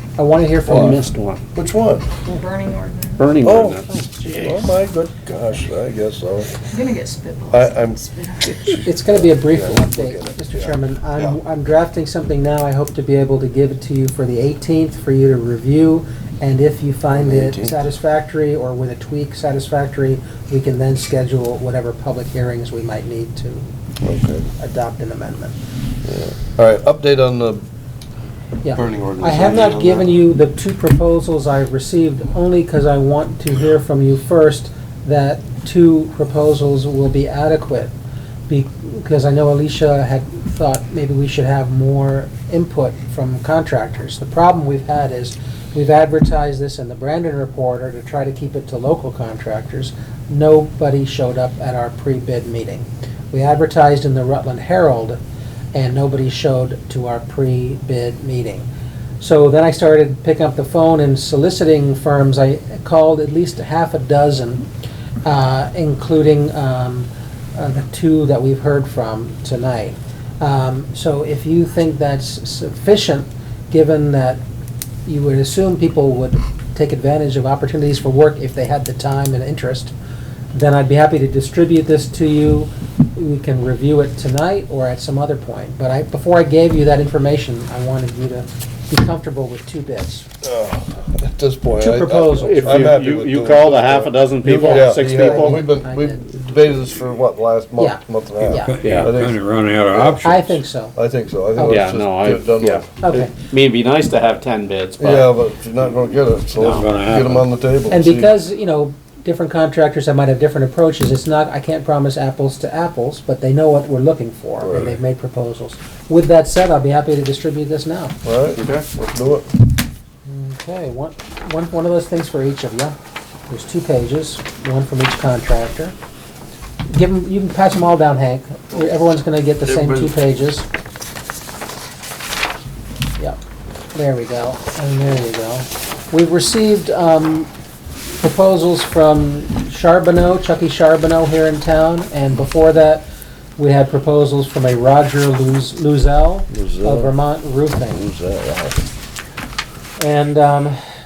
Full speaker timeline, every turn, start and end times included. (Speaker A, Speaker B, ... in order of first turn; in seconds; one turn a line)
Speaker A: 0.2-1.0
Speaker B: 0.7-1.4
Speaker C: 0.7-1.0
Speaker C: 1.6-2.1
Speaker D: 2.4-3.2
Speaker B: 3.2-4.7
Speaker C: 3.4-6.6
Speaker D: 6.7-8.7
Speaker C: 7.5-11.4
Speaker A: 8.8-23.7
Speaker C: 17.1-17.8
Speaker C: 24.0-24.5
Speaker A: 24.6-25.6
Speaker C: 26.1-27.6
Speaker A: 28.6-37.9
Speaker C: 28.7-30.1
Speaker A: 38.5-55.2
Speaker A: 55.7-58.7
Speaker A: 59.2-64.7
Speaker A: 65.2-74.4
Speaker A: 75.1-79.9
Speaker A: 80.5-90.3
Speaker C: 90.4-99.4
Speaker A: 91.8-92.8
Speaker B: 92.4-95.7
Speaker A: 94.6-96.6
Speaker A: 97.8-98.9
Speaker E: 98.6-100.5
Speaker B: 98.8-99.1
Speaker C: 99.9-100.2
Speaker A: 100.2-101.0
Speaker C: 101.0-103.0
Speaker A: 101.6-101.9
Speaker B: 101.6-105.3
Speaker A: 103.0-103.3
Speaker C: 105.0-108.3
Speaker E: 106.6-107.5
Speaker A: 107.9-118.2
Speaker C: 114.6-115.0
Speaker C: 118.2-119.5
Speaker B: 118.6-118.8
Speaker A: 120.3-123.0
Speaker A: 123.5-126.0
Speaker A: 126.9-130.7
Speaker C: 129.7-130.1
Speaker A: 133.9-137.5
Speaker A: 138.2-143.0
Speaker A: 143.6-148.0
Speaker C: 146.5-147.2
Speaker C: 147.9-148.9
Speaker A: 150.0-150.8